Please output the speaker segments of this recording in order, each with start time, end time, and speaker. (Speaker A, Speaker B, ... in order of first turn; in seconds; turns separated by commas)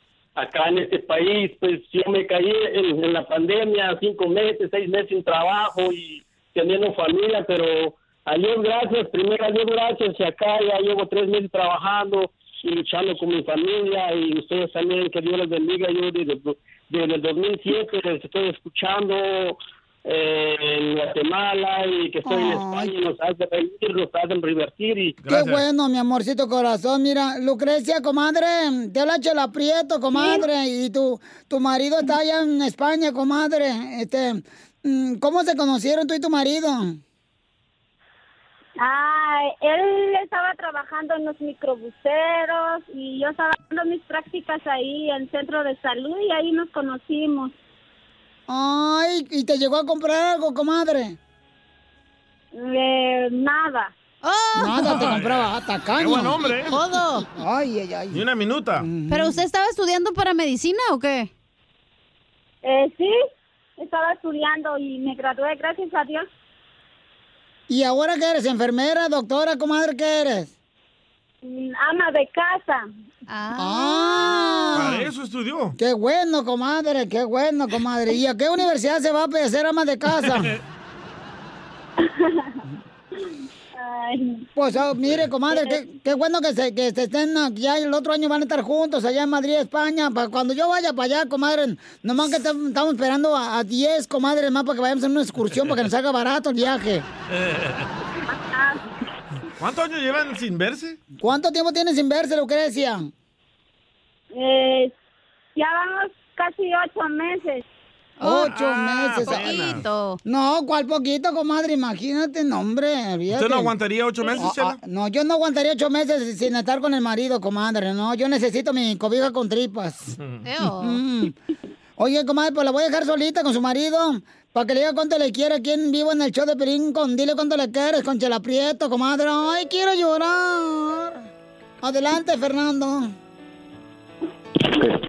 Speaker A: 0.4-25.2, Speaker B: 22.2-22.9, Speaker C: 25.2-25.6, Speaker B: 25.3-37.0, Speaker D: 38.8-47.5, Speaker B: 48.5-51.2, Speaker D: 52.5-53.9, Speaker E: 54.2-55.1, Speaker B: 54.5-56.5, Speaker C: 54.9-56.7, Speaker E: 56.7-57.3, Speaker B: 57.4-58.2, Speaker C: 58.1-58.9, Speaker B: 58.8-59.4, Speaker E: 59.1-61.3, Speaker D: 62.6-63.1, Speaker D: 63.8-66.3, Speaker B: 67.7-70.5, Speaker D: 71.4-72.9, Speaker E: 73.3-74.8, Speaker B: 73.6-75.1, Speaker C: 74.7-75.8, Speaker B: 75.8-80.5, Speaker D: 82.0-82.5, Speaker D: 83.8-84.5, Speaker B: 84.6-97.1, Speaker C: 97.4-97.9, Speaker D: 98.2-98.9, Speaker C: 99.6-101.0, Speaker B: 101.2-103.1, Speaker D: 104.3-104.9, Speaker D: 105.6-107.6, Speaker E: 108.2-108.6, Speaker B: 108.2-109.5, Speaker C: 108.5-109.8, Speaker E: 109.2-110.2, Speaker B: 110.3-113.7, Speaker C: 113.3-114.8, Speaker B: 114.4-120.2, Speaker E: 120.4-121.0, Speaker B: 120.8-121.3, Speaker B: 122.0-131.2, Speaker B: 131.8-133.1